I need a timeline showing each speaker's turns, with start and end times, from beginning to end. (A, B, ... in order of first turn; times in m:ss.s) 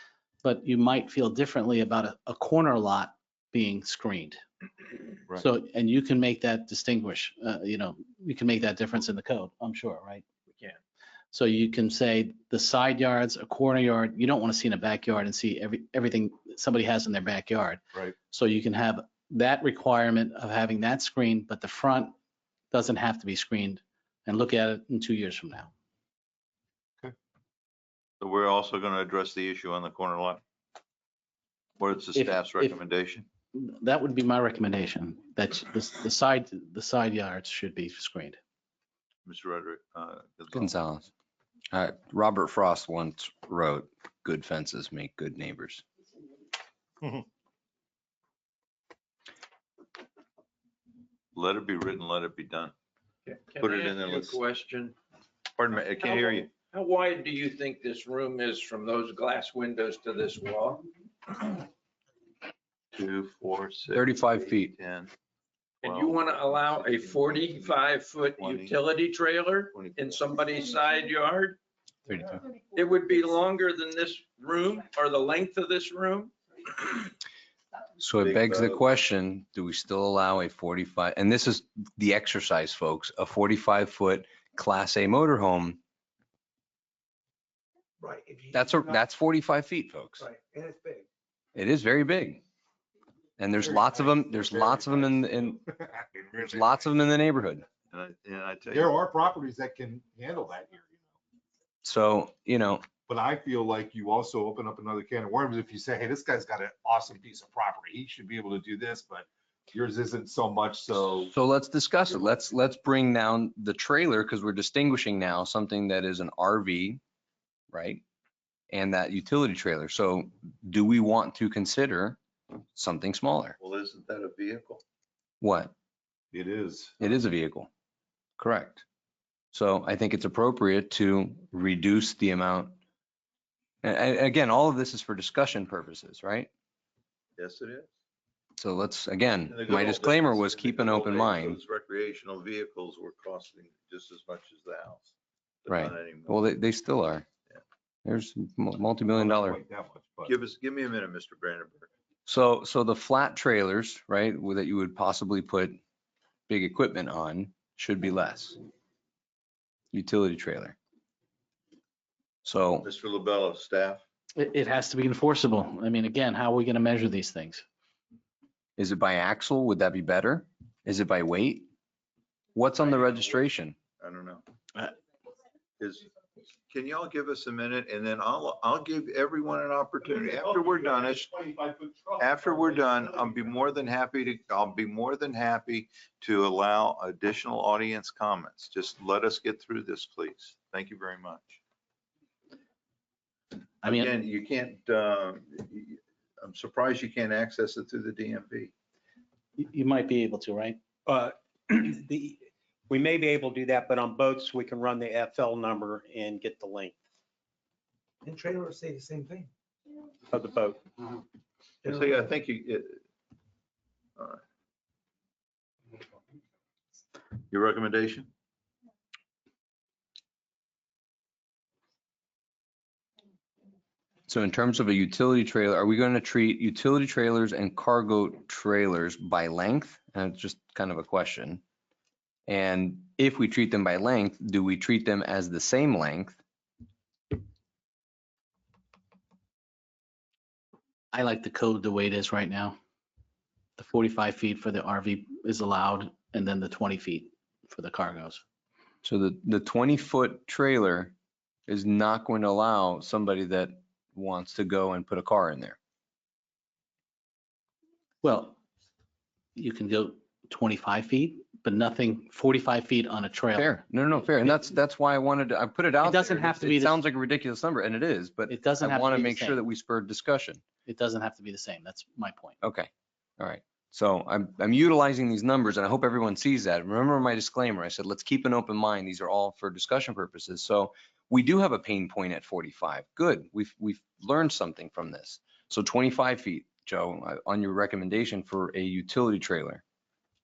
0:00.4-0:04.4 A
0:05.3-0:10.2 A
0:11.3-0:22.1 A
0:22.7-0:25.7 A
0:28.2-0:30.4 B
0:31.8-0:33.2 B
0:32.1-0:32.8 A
0:33.5-0:38.4 A
0:39.2-0:40.8 B
0:40.5-0:41.1 C
0:41.7-0:45.8 C
0:51.3-0:52.7 B
0:53.3-0:55.0 D
0:53.6-0:54.4 B
0:55.6-0:56.5 B
0:56.0-1:00.8 D
1:03.0-1:05.1 B
1:03.9-1:04.7 C
1:05.8-1:08.8 B
1:05.8-1:11.6 D
1:09.7-1:10.1 B
1:12.1-1:12.3 C
1:12.7-1:16.3 D
1:18.0-1:25.8 C
1:18.2-1:18.8 B
1:28.0-1:29.0 E
1:28.5-1:30.2 C
1:30.2-1:31.1 E
1:31.6-1:32.4 C
1:33.4-1:35.6 C
1:33.6-1:36.8 F
1:36.4-1:37.7 C
1:37.9-1:38.9 B
1:38.7-1:41.0 F
1:41.8-1:42.9 C
1:43.1-1:51.3 F
1:51.1-1:57.0 C
1:57.7-1:58.0 C
1:58.7-2:02.2 C
2:02.7-2:03.6 C
2:03.6-2:04.8 B
2:05.4-2:05.7 C
2:06.3-2:07.0 F
2:07.0-2:07.7 C
2:08.4-2:08.8 C
2:09.5-2:12.8 C
2:13.8-2:16.5 C
2:17.4-2:17.9 B
2:18.6-2:21.6 C
2:19.5-2:25.1 B
2:25.6-2:26.4 B
2:25.7-2:27.2 C
2:28.0-2:29.6 C
2:29.1-2:30.4 F
2:30.2-2:31.9 B
2:32.2-2:35.8 C
2:36.5-2:38.6 C
2:39.9-2:40.8 C
2:42.4-2:42.8 C
2:42.8-2:44.0 B
2:44.4-2:47.7 A
2:48.8-2:51.7 C
2:52.5-2:53.8 C
2:54.0-2:54.4 B
2:55.8-2:56.1 B
2:56.7-3:01.3 B
3:00.0-3:03.5 F
3:02.2-3:11.6 B
3:13.8-3:14.1 A
3:13.8-3:18.7 B
3:19.6-3:20.8 A
3:21.0-3:27.0 G
3:28.2-3:29.5 E
3:30.3-3:30.8 G
3:31.8-3:32.2 E
3:31.8-3:33.0 B
3:37.5-3:38.3 B
3:44.3-3:51.6 C
3:52.5-3:56.4 C
4:01.1-4:02.8 A
4:03.8-4:08.4 A
4:09.0-4:11.1 C
4:11.7-4:15.8 C
4:18.2-4:18.6 A
4:19.6-4:23.8 A
4:23.6-4:30.6 C
4:26.0-4:27.0 A
4:28.5-4:29.6 A
4:30.9-4:32.6 A
4:32.6-4:49.8 C